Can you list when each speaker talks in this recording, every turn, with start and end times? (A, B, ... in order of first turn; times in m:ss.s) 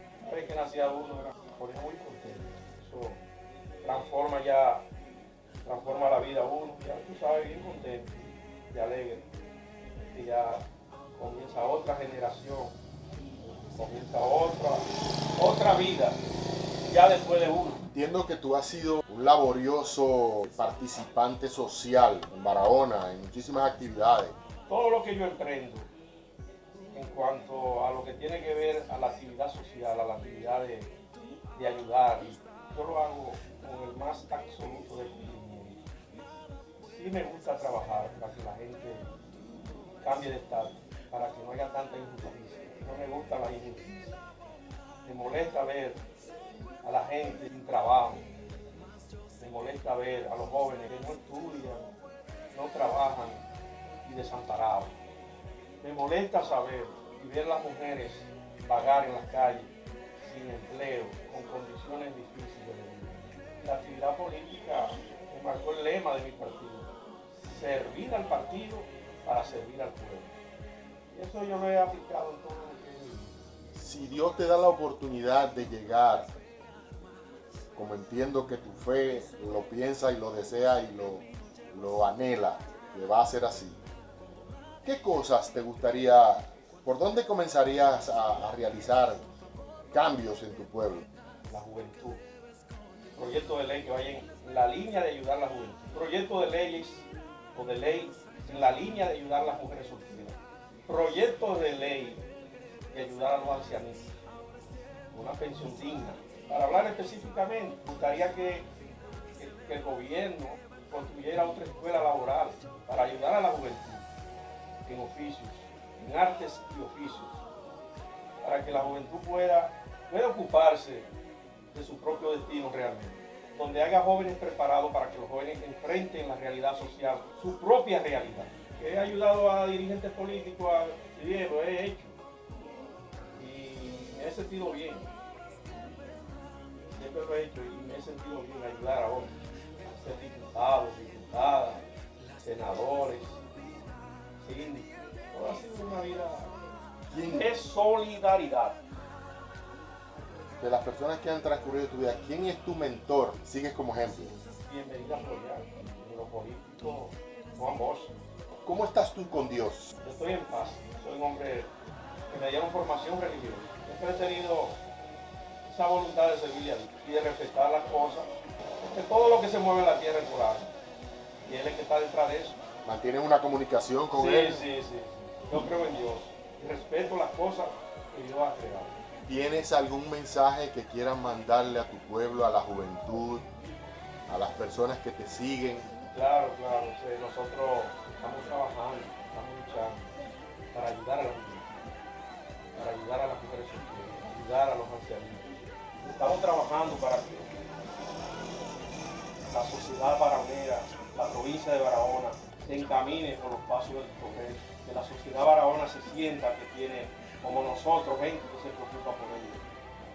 0:00.2-0:03.2 A
0:03.8-0:04.8 A
0:05.6-0:09.3 A
0:10.1-0:10.6 A
0:11.1-0:12.7 A
0:13.8-0:14.8 A
0:15.4-0:16.2 A
0:16.8-0:17.8 A
0:17.9-0:24.4 B
0:24.7-0:25.9 A
0:26.9-0:30.9 A
0:31.6-0:35.8 A
0:36.8-0:39.1 A
0:40.0-0:44.1 A
0:45.0-0:46.0 A
0:46.8-0:48.3 A
0:49.4-0:51.9 A
0:52.5-0:53.4 A
0:54.0-0:55.0 A
0:55.8-1:10.4 A
1:11.1-1:13.4 A
1:13.7-1:16.3 B
1:17.7-1:23.8 B
1:24.8-1:29.2 B
1:29.9-1:31.0 B
1:31.5-1:32.2 A
1:33.2-1:40.4 A
1:40.9-1:42.2 A
1:42.9-1:44.1 A
1:45.1-1:48.7 A
1:49.4-1:54.1 A
1:54.8-1:57.4 A
1:58.4-2:01.1 A
2:01.7-2:12.2 A
2:13.4-2:15.1 A
2:16.9-2:19.4 A
2:20.0-2:21.8 A
2:22.4-2:23.4 A
2:24.4-2:26.5 A
2:27.1-2:27.5 B
2:27.3-2:28.8 A
2:30.6-2:34.3 B
2:34.6-2:38.1 A
2:38.6-2:39.9 B
2:40.0-2:41.7 A
2:42.3-2:44.8 A
2:45.6-2:48.3 A
2:48.8-2:50.7 A
2:51.4-2:52.6 A
2:52.8-2:54.6 B
2:54.1-2:59.0 A
2:59.3-3:03.5 B
3:04.3-3:05.9 B
3:06.1-3:10.2 A
3:10.7-3:11.8 A
3:12.8-3:17.5 A
3:19.5-3:29.6 A